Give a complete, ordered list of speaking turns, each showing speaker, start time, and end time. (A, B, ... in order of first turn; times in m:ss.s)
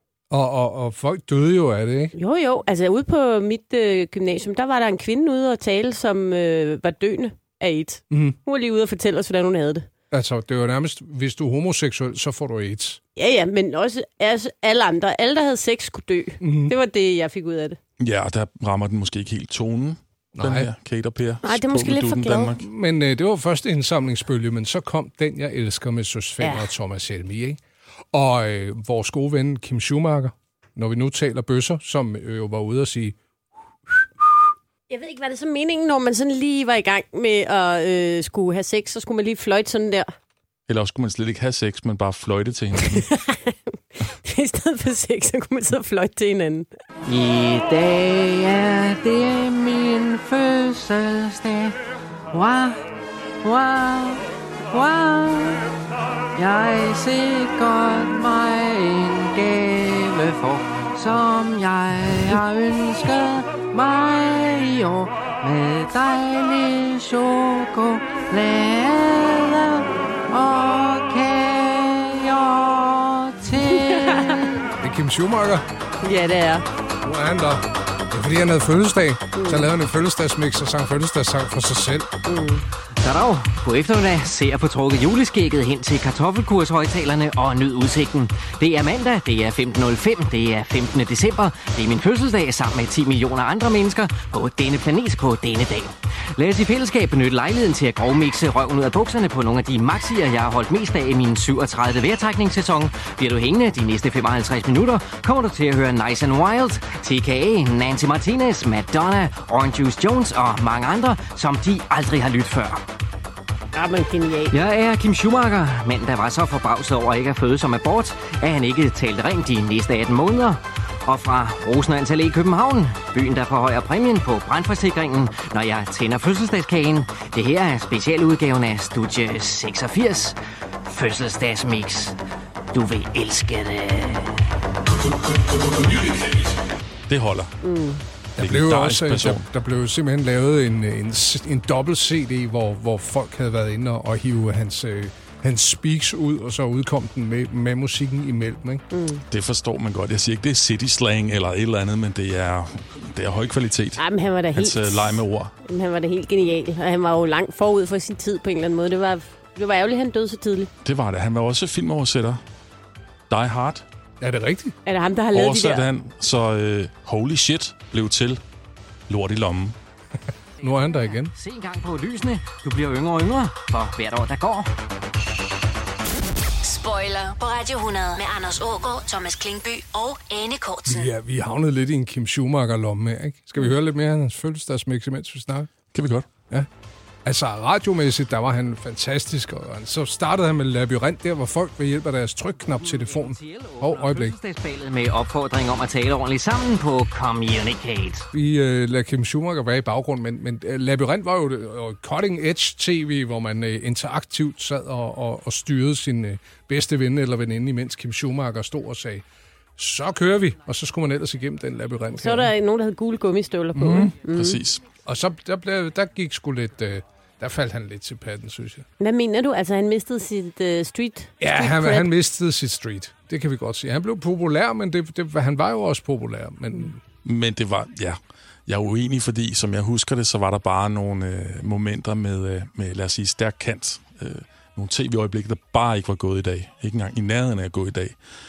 0:00.3-0:02.1 A
0:02.1-0:09.9 B
0:08.1-0:08.4 A
0:10.1-0:13.0 A
0:13.2-0:17.8 B
0:16.4-0:16.7 A
0:18.0-0:22.6 C
0:20.4-0:20.7 A
0:21.4-0:22.6 B
0:22.6-0:27.6 A
0:26.4-0:26.7 B
0:28.1-0:33.2 A
0:34.9-0:40.1 B
0:40.7-0:43.0 C
0:42.8-0:43.6 B
0:44.1-0:46.7 B
0:47.0-0:51.8 D
0:52.3-0:52.8 D
0:53.4-0:55.6 D
0:56.3-1:14.6 D
1:13.7-1:14.4 B
1:14.8-1:15.6 A
1:16.0-1:16.6 B
1:17.0-1:22.1 A
1:19.3-1:19.7 B
1:22.2-1:22.6 B
1:23.0-1:52.8 E
1:53.7-1:54.6 B
1:54.5-2:12.2 E
2:12.7-2:14.4 E
2:17.1-2:17.5 C
2:17.6-2:18.0 B
2:18.4-2:28.8 A
2:18.4-2:19.4 C
2:28.9-2:29.2 B
2:29.3-2:34.0 C
2:34.0-2:40.7 B
2:34.5-2:35.5 C
2:40.8-2:42.4 C
2:43.3-2:43.8 C
2:44.2-2:44.7 A
2:44.8-2:45.9 B
2:45.3-2:48.4 C
2:49.1-2:49.8 C
2:50.6-2:51.3 A
2:50.6-2:54.7 E
2:56.6-3:01.1 F
3:00.9-3:05.7 A
3:05.9-3:06.3 C
3:07.2-3:14.3 A
3:12.7-3:18.2 E
3:18.3-3:29.2 A
3:29.8-3:32.5 A
3:32.2-3:34.6 B
3:33.7-3:34.1 A
3:33.9-3:34.9 C
3:35.0-3:38.8 A
3:39.0-3:42.1 B
3:41.4-3:47.0 A
3:47.2-3:58.2 C